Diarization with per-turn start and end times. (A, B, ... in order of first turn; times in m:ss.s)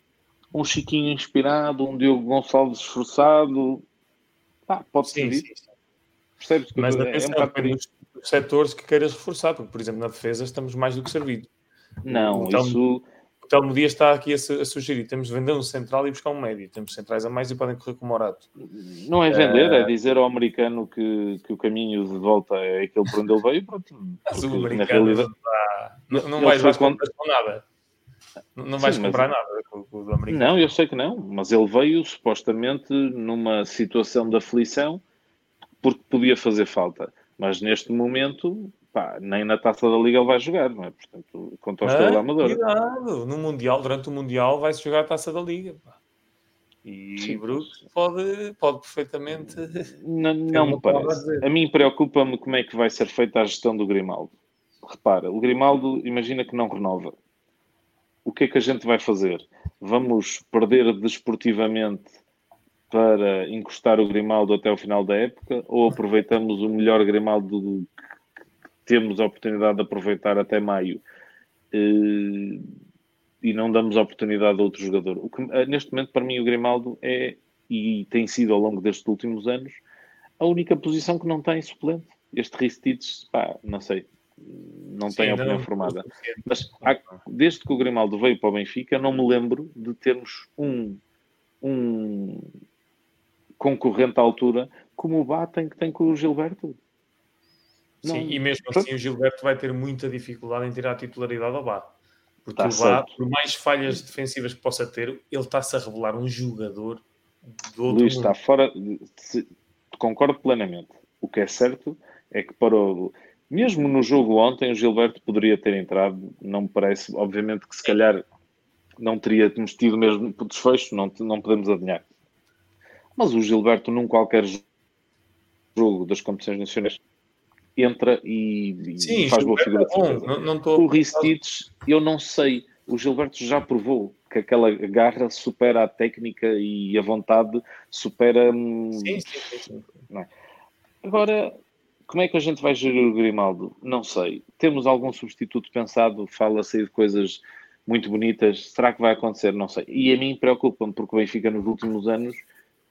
0:00.5-0:03.8 A
0:04.7-0:05.4 A
0:05.0-0:05.7 B
0:06.4-0:07.8 A
0:06.8-0:11.5 B
0:12.0-0:13.0 A
0:12.1-0:12.8 B
0:13.4-0:18.5 B
0:18.7-0:25.3 A
0:19.3-0:19.9 B
0:24.3-0:27.6 B
0:26.1-0:27.0 A
0:28.6-0:30.8 B
0:28.8-0:29.3 A
0:30.3-0:35.0 A
0:35.8-0:42.6 A
0:41.8-0:45.9 B
0:46.8-0:49.9 B
0:47.2-0:47.7 A
0:50.0-0:57.1 A
0:50.5-0:51.5 B
0:58.2-1:02.1 A
1:02.9-1:07.9 A
1:08.9-1:11.0 A
1:11.7-1:12.7 A
1:13.4-1:19.8 A
1:20.4-1:31.0 A
1:25.1-1:27.2 B
1:31.6-1:32.5 A
1:33.6-1:36.8 A
1:38.0-1:38.9 A
1:38.0-1:41.9 B
1:42.4-1:48.3 B
1:42.6-1:43.1 A
1:47.9-1:58.2 A
1:59.0-2:02.0 A
2:03.2-2:04.6 A
2:05.8-2:07.0 A
2:07.8-2:19.5 A
2:09.0-2:11.3 B
2:19.0-2:19.9 B
2:21.0-2:21.6 A
2:22.1-2:32.4 A